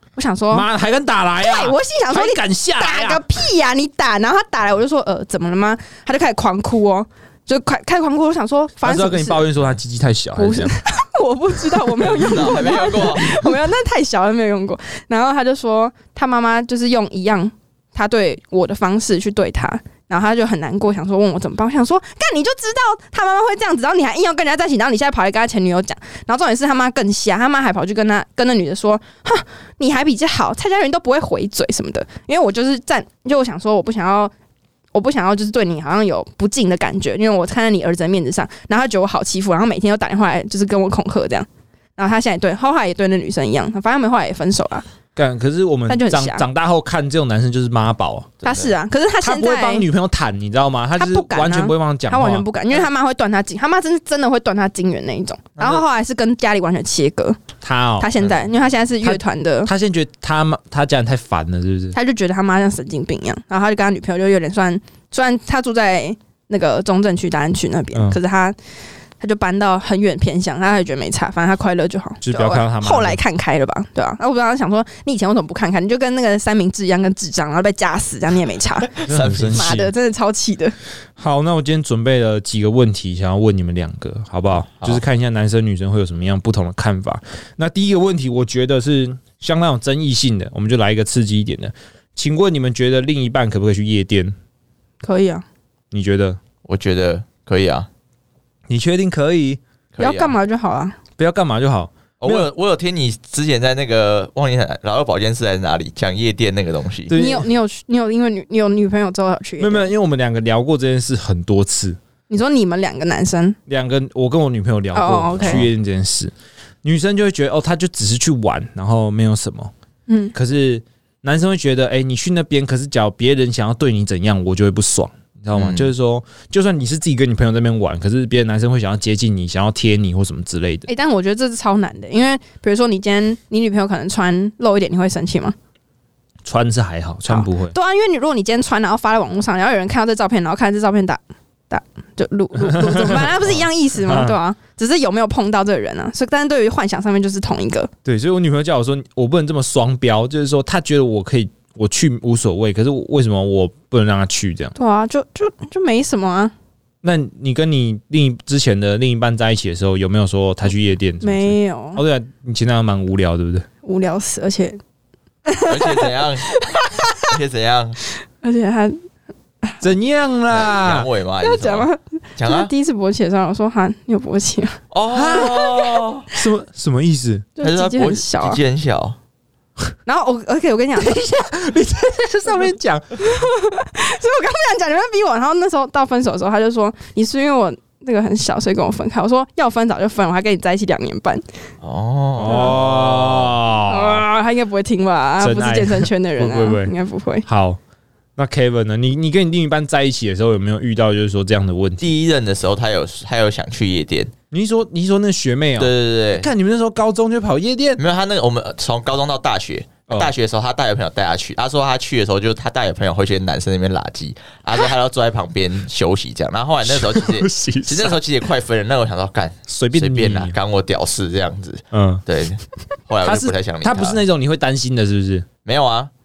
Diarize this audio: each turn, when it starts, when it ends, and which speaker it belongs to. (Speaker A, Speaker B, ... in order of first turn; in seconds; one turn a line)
Speaker A: 0.1-0.7
Speaker B: 0.5-3.2
Speaker A: 1.4-9.5
Speaker B: 8.8-10.7
Speaker A: 10.4-34.3
Speaker C: 12.0-13.2
Speaker A: 34.9-44.8
Speaker B: 45.1-48.3
Speaker A: 45.9-46.4
Speaker C: 48.4-48.7
Speaker A: 48.4-49.9
Speaker B: 49.2-52.4
Speaker A: 51.0-57.4
Speaker B: 57.6-58.1
Speaker A: 58.0-59.7
Speaker B: 59.0-61.9
Speaker A: 61.9-68.5
Speaker A: 69.2-79.0
Speaker B: 72.2-73.2
Speaker C: 78.8-79.8
Speaker B: 79.1-79.9
Speaker A: 79.5-80.7
Speaker B: 81.2-94.3
Speaker A: 95.0-95.4
Speaker B: 95.9-96.4
Speaker C: 96.6-97.9
Speaker B: 98.7-99.6
Speaker C: 99.9-100.3
Speaker A: 100.0-101.0
Speaker B: 101.2-102.5
Speaker C: 102.2-107.1
Speaker B: 107.1-107.5
Speaker A: 107.1-109.9
Speaker B: 109.6-112.0
Speaker A: 112.3-113.6
Speaker B: 113.7-116.3
Speaker A: 114.9-115.7
Speaker B: 116.8-119.7
Speaker A: 120.1-120.3
Speaker B: 120.3-130.9
Speaker C: 125.5-125.9
Speaker A: 130.9-135.5
Speaker B: 136.4-137.7
Speaker A: 137.3-147.9
Speaker B: 142.6-144.3
Speaker B: 148.0-154.7
Speaker A: 154.8-156.5
Speaker B: 157.0-163.7
Speaker A: 161.2-162.0
Speaker A: 163.8-164.8
Speaker A: 165.4-167.3
Speaker C: 165.7-166.6
Speaker C: 167.2-168.0
Speaker A: 168.4-169.0
Speaker B: 169.8-171.1
Speaker C: 170.5-172.7
Speaker A: 171.4-174.8
Speaker C: 174.9-176.3
Speaker B: 175.1-177.5
Speaker A: 175.3-175.8
Speaker A: 177.6-178.6
Speaker C: 177.6-179.2
Speaker A: 180.1-181.3
Speaker B: 181.0-183.0
Speaker A: 183.2-191.4
Speaker C: 191.8-193.6
Speaker B: 192.4-194.2
Speaker A: 192.4-192.8
Speaker A: 193.9-197.4
Speaker B: 195.4-196.9
Speaker B: 197.4-197.8
Speaker B: 198.4-202.1
Speaker C: 202.0-204.3
Speaker B: 204.5-208.0
Speaker C: 205.8-206.5
Speaker C: 208.0-224.2
Speaker B: 216.8-218.2
Speaker B: 219.7-220.5
Speaker B: 221.9-222.2
Speaker B: 223.2-225.5
Speaker C: 225.6-226.1